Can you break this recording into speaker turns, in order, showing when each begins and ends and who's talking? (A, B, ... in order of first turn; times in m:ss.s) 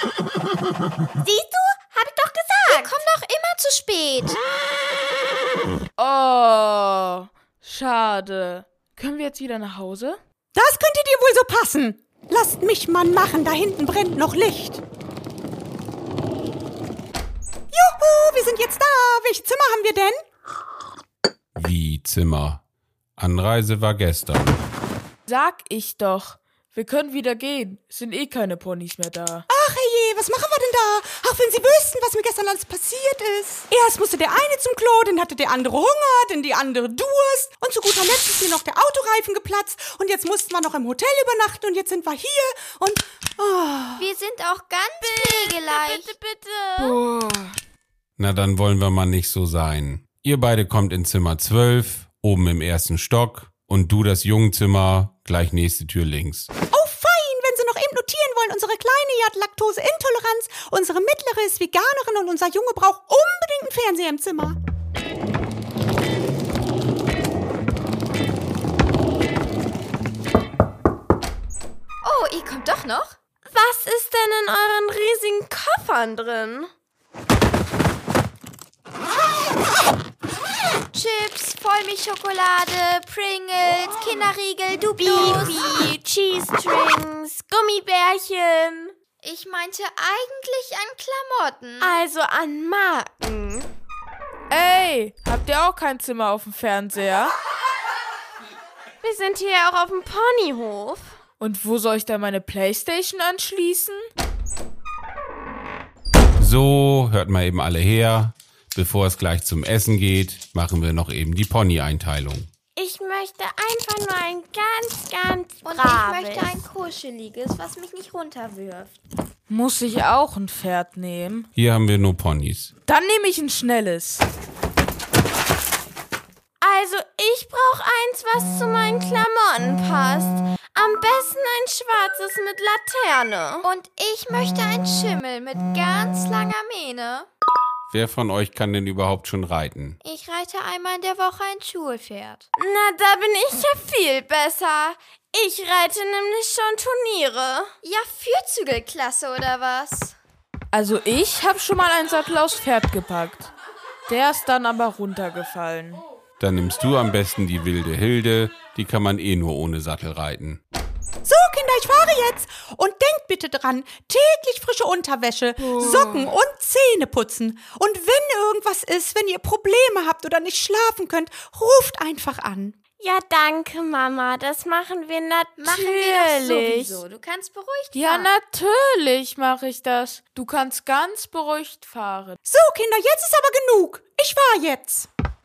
0:01.2-0:03.0 A
0:02.6-0:04.4 B
0:06.0-0:10.2 C
0:10.6-0:14.8 D
0:17.7-0:20.2 D
0:21.6-0:22.6 E
0:23.2-0:24.6 E
0:25.3-0:29.4 C
0:29.5-0:44.1 D
0:44.0-0:46.1 B
0:45.0-0:47.0 A
0:46.8-0:47.6 C
0:48.2-0:56.5 E
0:56.7-1:04.6 D
1:12.0-1:13.2 B
1:13.5-1:16.7 A
1:20.9-1:25.6 B
1:25.0-1:28.9 A
1:29.2-1:32.0 B
1:31.8-1:33.7 A
1:34.5-1:37.3 C
1:39.0-1:41.2 A
1:41.4-1:44.1 C
1:46.4-1:52.5 E
1:52.8-1:56.5 A
1:55.6-1:58.9 B
1:59.5-2:01.5 C
2:01.6-2:02.7 E
2:02.9-2:04.3 C
2:06.6-2:13.7 A
2:13.6-2:17.3 B
2:17.9-2:20.0 E
2:20.0-2:22.4 B
2:22.6-2:27.7 A
2:27.8-2:30.1 B
2:30.7-2:33.5 C
2:34.1-2:36.0 C
2:36.4-2:40.6 E
2:41.2-2:52.8 D
2:45.6-2:46.3 C
2:53.0-2:57.0 A
2:55.6-2:58.3 B
2:57.9-3:02.4 C
3:02.4-3:05.1 D